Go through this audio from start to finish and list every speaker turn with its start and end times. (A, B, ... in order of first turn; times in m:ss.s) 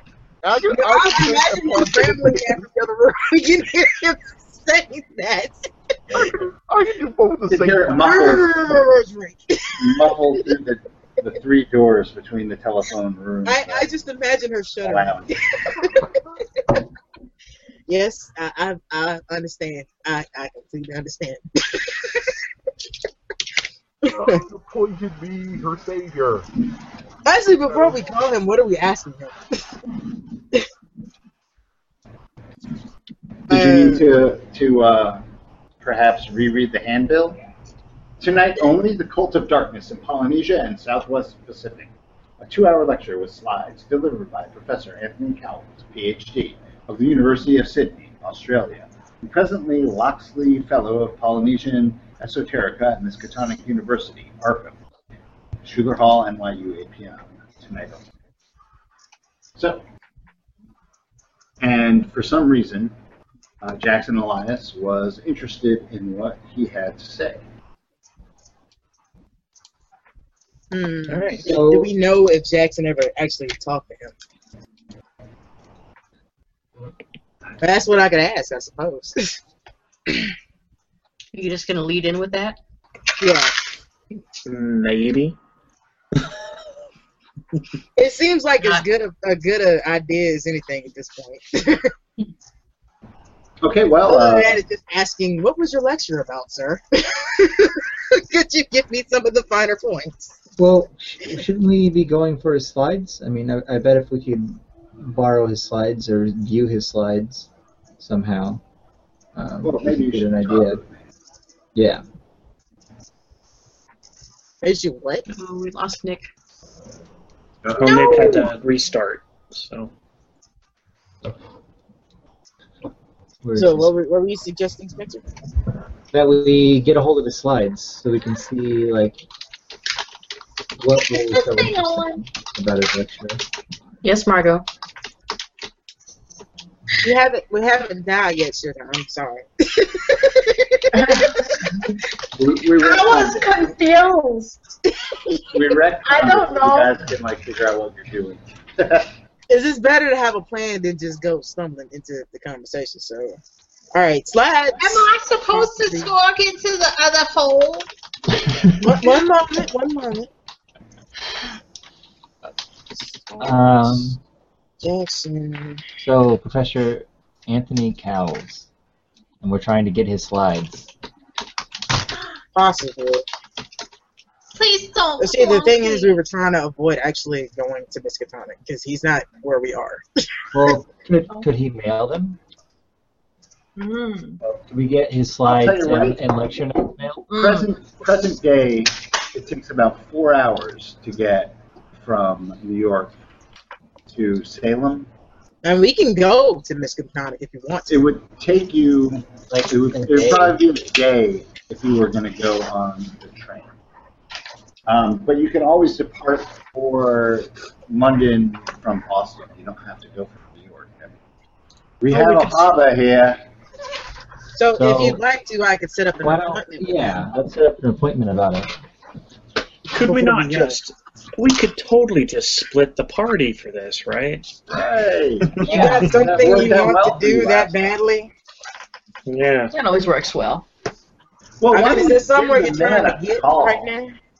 0:00.4-0:02.9 A
0:00.7-0:06.3 B
0:06.1-0:06.4 C
0:06.4-0:08.1 A
0:07.5-0:08.8 C
0:08.0-0:10.2 B
0:09.8-0:13.9 C
0:13.4-0:16.2 B
0:14.8-0:15.4 C
0:17.9-0:22.4 B
0:24.0-0:26.5 A
0:24.1-0:24.4 B
0:27.2-0:29.6 B
0:27.7-0:28.0 A
0:33.5-0:34.0 B
0:33.5-0:35.2 C
0:35.8-0:37.4 C
0:38.2-0:54.8 C
0:55.6-0:58.1 C
0:59.6-0:59.8 C
1:01.6-1:02.9 C
1:03.6-1:07.4 C
1:10.7-1:14.1 B
1:11.1-1:11.4 D
1:11.4-1:11.9 E
1:17.6-1:19.4 B
1:21.3-1:22.6 F
1:23.2-1:23.5 B
1:24.4-1:25.4 D
1:28.0-1:31.9 B
1:33.6-1:34.6 C
1:34.0-1:40.3 B
1:40.6-1:47.5 E
1:48.0-1:48.6 E
1:49.3-1:50.8 E
1:49.6-1:51.0 C
1:51.7-1:52.0 E
1:54.6-1:55.2 B
1:55.3-1:56.2 F
1:57.6-1:58.1 C
1:57.7-1:59.9 D
1:57.9-1:58.4 G
2:03.4-2:03.9 E
2:03.5-2:05.2 B
2:06.1-2:09.2 E
2:10.8-2:13.4 E
2:11.1-2:12.2 G
2:14.0-2:14.6 F
2:17.0-2:21.3 B
2:21.0-2:21.3 G
2:22.3-2:23.7 C
2:22.8-2:24.6 G
2:25.5-2:29.1 C
2:26.0-2:26.9 G
2:29.5-2:33.4 B
2:33.9-2:36.1 B
2:34.8-2:37.9 G
2:38.8-2:40.3 B
2:43.4-2:44.2 E
2:44.8-2:45.8 B
2:46.0-2:48.7 E
2:49.4-2:50.9 E
2:52.5-2:53.2 B
2:54.6-2:56.2 G
2:55.2-3:00.0 B
3:00.5-3:02.4 E
3:03.8-3:04.4 G
3:04.7-3:07.2 E
3:05.4-3:06.2 C
3:07.3-3:13.1 C
3:07.3-3:07.7 G
3:14.0-3:15.1 C
3:15.6-3:18.0 B
3:17.9-3:23.7 C
3:19.5-3:20.6 E
3:24.9-3:31.2 C
3:32.0-3:33.4 C
3:32.1-3:32.7 D
3:34.5-3:37.2 B
3:34.7-3:35.2 E
3:36.2-3:38.7 E
3:39.9-3:44.4 D
3:40.0-3:40.8 B
3:44.7-3:47.7 C
3:45.6-3:48.3 B
3:49.3-3:49.7 D
3:49.7-3:50.6 F
3:51.6-3:53.9 C
3:51.7-3:54.1 B